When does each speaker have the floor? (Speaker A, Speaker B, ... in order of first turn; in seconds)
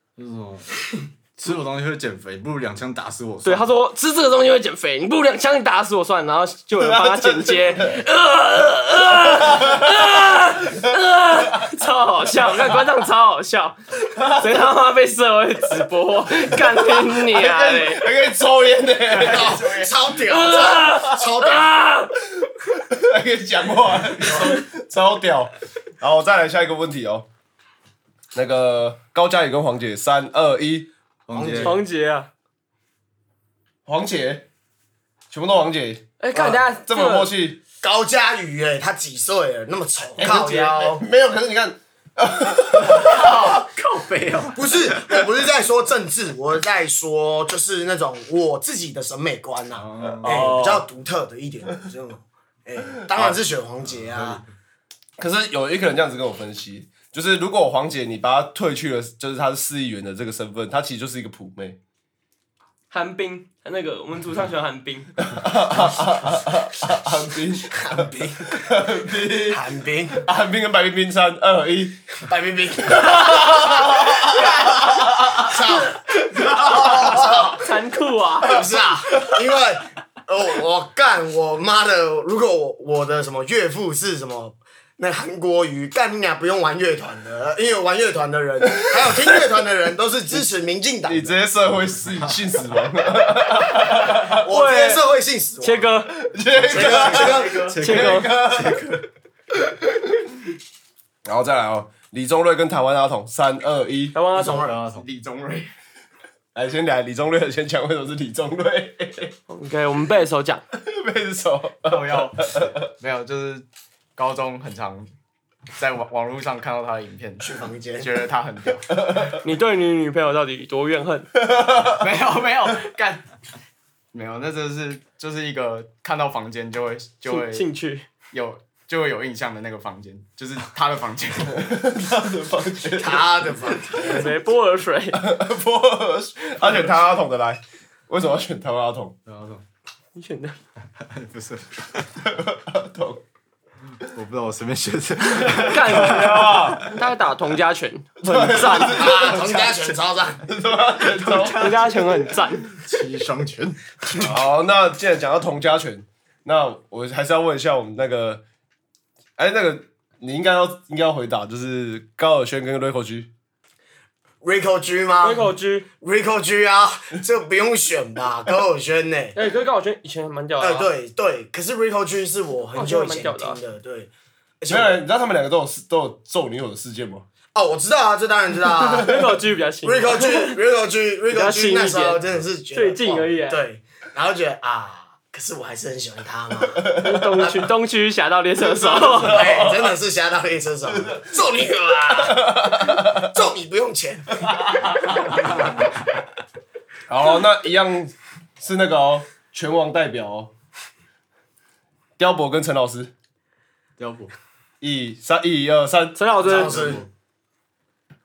Speaker A: 0.2-3.7, 31.3-31.8, 42.9-45.2, 49.7-50.5, 54.0-54.4, 96.8-99.0, 104.6-105.0, 139.3-139.6, 141.0-142.1, 144.0-146.9, 151.1-154.2, 204.0-204.3, 206.5-207.1
Speaker B: 3.4-18.0, 20.2-22.1, 31.6-32.3, 36.2-37.3, 40.2-40.7, 62.9-65.1, 77.2-78.6, 94.5-95.0, 95.6-96.1, 97.8-98.3, 104.1-104.7, 109.5-110.6, 119.4-121.3, 127.3-128.1, 133.9-135.2, 140.1-140.6, 145.6-149.4, 151.5-152.8, 165.2-165.9, 169.3-170.9, 172.7-173.6, 178.8-180.6, 181.3-182.2, 182.7-183.6, 186.9-189.6, 206.2-206.9
Speaker C: 6.8-8.0, 9.4-10.1, 14.1-14.6, 16.4-19.6, 22.4-27.3, 28.3-30.9, 33.9-34.5, 35.3-37.6, 40.2-43.6, 50.1-50.8, 55.2-61.8, 65.2-72.0, 72.8-77.5, 78.6-79.3, 88.8-89.3, 91.0-94.4, 96.1-99.0, 99.5-100.2, 101.2-104.1, 106.5-109.3, 110.7-112.8, 118.9-119.4, 121.4-122.0, 131.6-134.3, 135.1-139.2, 142.2-143.2, 145.6-146.9, 148.2-149.8, 150.4-152.0, 154.2-158.4, 159.4-163.3, 174.7-177.2, 186.8-187.4, 188.7-189.9, 190.9-191.2, 192.1-193.3, 194.4-195.5, 197.1-200.5, 202.2-203.1, 204.8-206.2
Speaker D: 19.1-21.7, 31.3-31.8, 37.8-41.0, 44.5-54.4, 67.7-68.6, 69.5-70.2, 72.2-77.6, 78.4-91.3, 94.1-95.9, 96.7-97.7, 104.3-104.8, 117.4-118.2, 133.0-134.2, 148.6-150.4, 164.4-169.4, 170.6-174.1, 174.6-175.0, 177.5-179.3, 179.8-187.6, 189.2-194.4, 206.4-207.0
Speaker E: 19.3-19.9, 96.7-97.8, 104.9-105.7, 111.8-115.1, 115.7-118.9, 121.8-123.2, 124.1-127.7, 128.3-131.7